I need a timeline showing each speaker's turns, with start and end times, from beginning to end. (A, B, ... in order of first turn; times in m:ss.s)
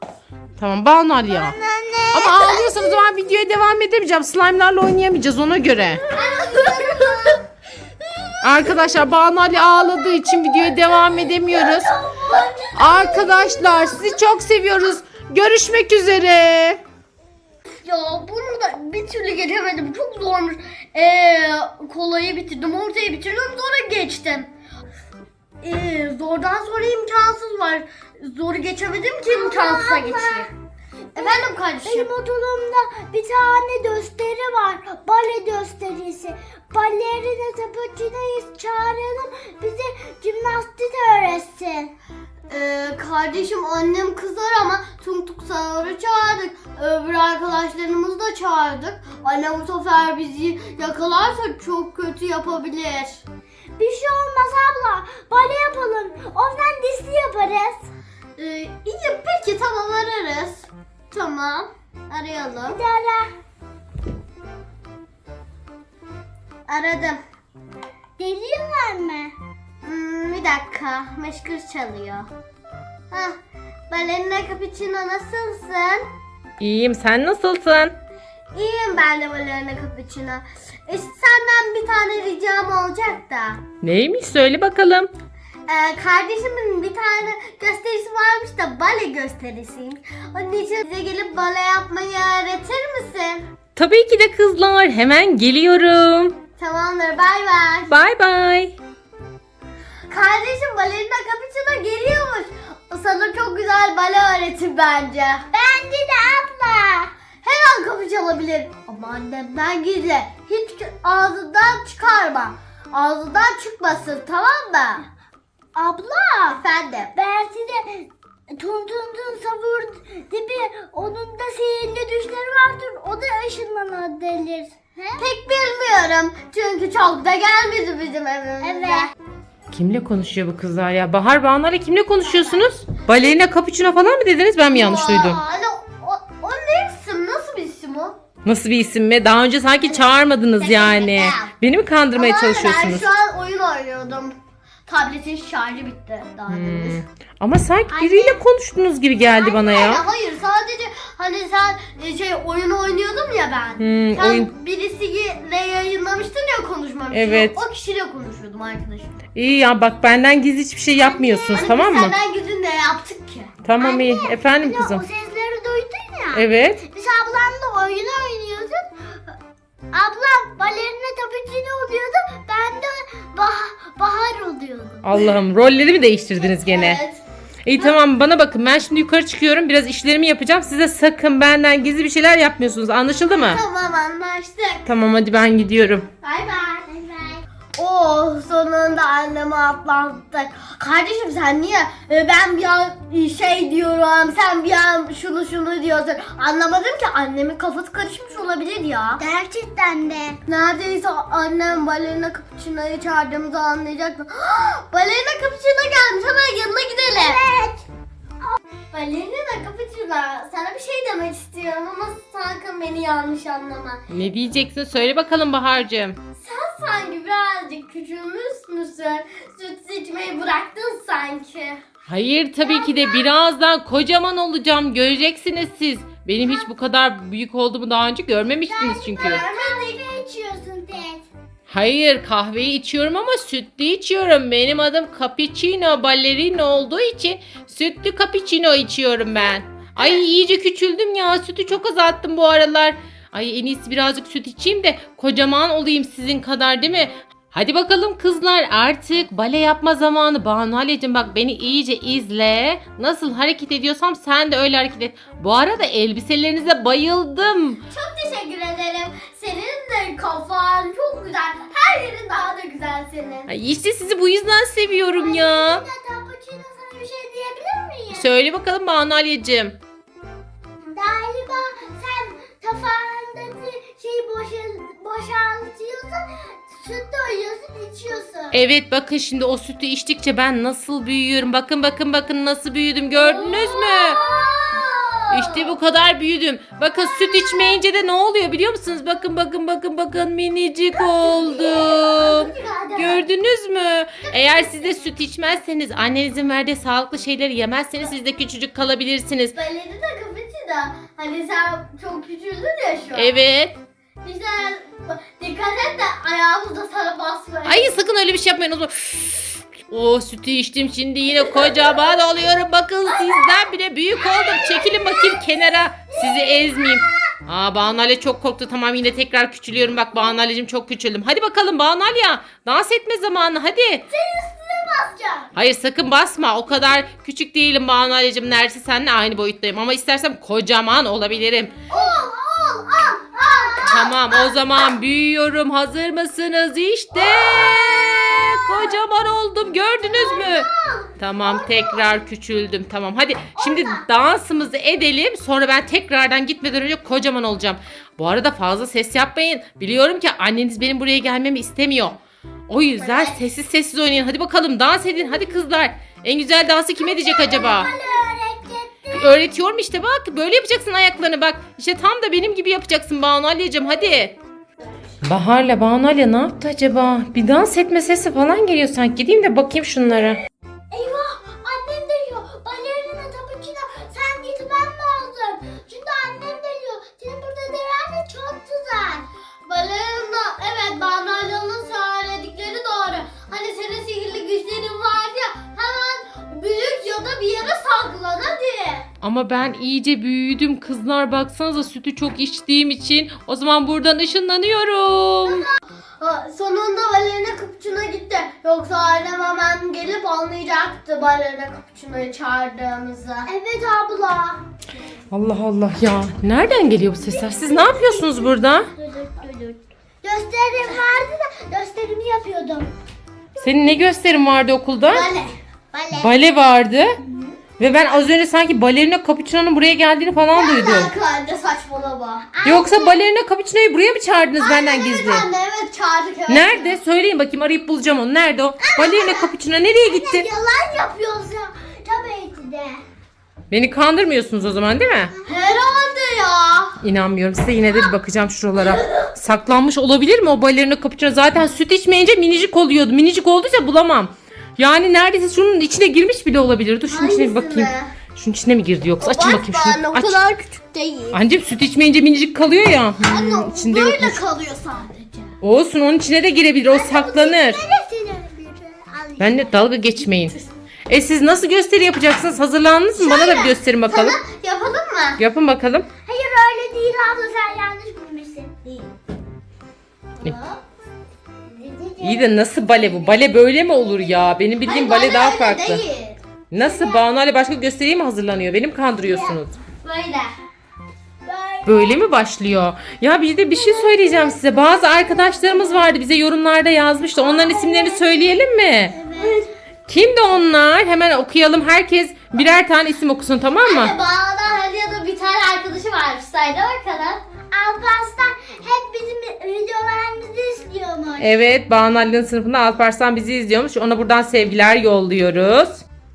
0:00.6-0:01.6 A
0:01.3-0:03.0 B
0:02.1-0:06.0 A
0:06.1-0:07.4 B
0:06.2-0:07.0 C
0:08.4-0:11.9 A
0:10.7-0:14.2 B
0:12.7-0:16.8 A
0:17.8-0:24.5 C
0:25.6-0:30.5 C
0:29.2-0:30.5 B
0:31.1-0:41.9 B
0:31.2-0:32.1 C
0:42.5-0:53.2 C
0:53.8-0:57.9 B
0:58.4-1:02.8 C
1:02.6-1:03.3 B
1:06.7-1:07.2 C
1:08.2-1:09.3 B
1:09.8-1:12.3 C
1:13.1-1:13.4 C
1:13.9-1:16.1 C
1:16.6-1:17.9 A
1:18.5-1:23.6 C
1:23.8-1:25.1 A
1:25.6-1:33.4 C
1:33.8-1:36.4 A
1:36.6-1:37.9 C
1:37.9-1:38.7 A
1:40.1-1:45.5 C
1:45.5-1:47.1 B
1:47.4-1:55.0 C
1:55.7-1:56.6 B
1:56.5-1:57.2 C
1:57.1-2:05.2 B
2:05.2-2:09.0 C
2:08.6-2:09.1 B
2:09.7-2:15.4 A
2:14.7-2:18.2 C
2:18.4-2:23.1 A
2:20.6-2:21.5 C
2:22.1-2:24.4 C
2:24.9-2:27.0 C
2:26.5-2:30.0 A
2:27.9-2:28.4 C
2:29.2-2:39.1 C
2:33.8-2:34.5 A
2:37.1-2:37.6 A
2:39.3-2:42.1 A
2:41.0-2:43.5 C
2:43.6-2:45.0 A
2:43.8-2:48.9 B
2:46.3-2:46.8 A
2:49.9-2:55.1 B
2:55.0-2:57.0 A
2:56.4-2:57.2 C
2:57.6-3:03.6 A
3:03.3-3:04.9 C
3:04.8-3:06.1 A
3:06.2-3:06.9 C
3:06.9-3:07.4 B
3:07.8-3:19.2 C
3:19.2-3:20.4 B
3:20.5-3:27.4 C
3:27.1-3:27.8 B
3:28.9-3:34.0 C
3:34.1-3:36.2 A
3:36.4-3:41.8 C
3:42.1-3:49.4 A
3:48.7-3:51.2 B
3:49.1-3:49.9 C
3:51.7-4:17.8 A
4:17.9-4:23.5 C
4:23.5-4:25.8 A
4:25.1-4:28.3 B
4:28.1-4:29.8 A
4:30.9-4:38.5 B
4:38.5-4:44.2 A
4:43.3-4:45.7 C
4:45.3-4:59.5 A
4:47.1-4:47.8 C
4:51.0-4:53.2 C
4:54.3-4:54.6 C
4:59.5-5:03.4 C
5:03.1-5:03.8 A
5:04.2-5:07.9 C
5:07.6-5:24.1 A
5:24.2-5:25.4 C
5:25.5-5:31.7 A
5:31.9-5:34.2 C
5:32.6-5:33.3 B
5:33.8-5:57.9 A
5:37.4-5:37.8 C
5:40.3-5:41.0 C
5:57.0-5:59.4 B
5:59.1-6:04.4 A
6:05.2-6:10.4 A
6:10.9-6:19.3 B
6:19.6-6:29.1 C
6:29.2-6:35.7 A
6:35.4-6:43.5 C
6:43.4-6:44.6 B
6:45.3-6:48.9 A
6:47.3-6:52.9 B
6:53.6-6:55.3 A
6:55.1-6:55.5 C
6:55.9-6:56.3 B
6:56.1-6:57.2 A
6:57.8-7:01.1 A
7:00.5-7:02.5 C
7:02.5-7:03.2 B
7:02.6-7:05.4 A
7:04.6-7:07.0 C
7:06.5-7:10.5 A
7:08.8-7:09.5 B
7:10.0-7:13.0 B
7:13.7-7:15.3 A
7:15.4-7:17.0 C
7:17.0-7:30.4 A
7:27.1-7:28.1 C
7:29.2-7:31.4 C
7:31.3-7:34.4 A
7:33.2-7:35.5 C
7:35.6-7:37.8 A
7:36.9-7:39.7 B
7:39.4-7:40.5 A
7:41.1-7:44.4 A
7:43.1-7:45.4 C
7:45.4-7:46.1 A
7:46.2-7:49.1 B
7:50.4-7:50.8 C
7:51.6-7:53.0 B
7:52.2-7:56.0 A
7:54.8-7:56.4 C
7:56.7-7:59.8 A
7:56.8-7:57.2 B
7:59.2-7:59.6 B
8:00.0-8:00.5 C
8:01.4-8:02.2 B
8:01.8-8:09.2 A
8:03.7-8:04.6 B
8:07.4-8:08.2 B
8:09.1-8:09.7 B
8:09.4-8:09.6 C
8:10.1-8:14.1 A
8:13.8-8:17.4 C
8:17.7-8:21.5 B
8:21.4-8:26.0 A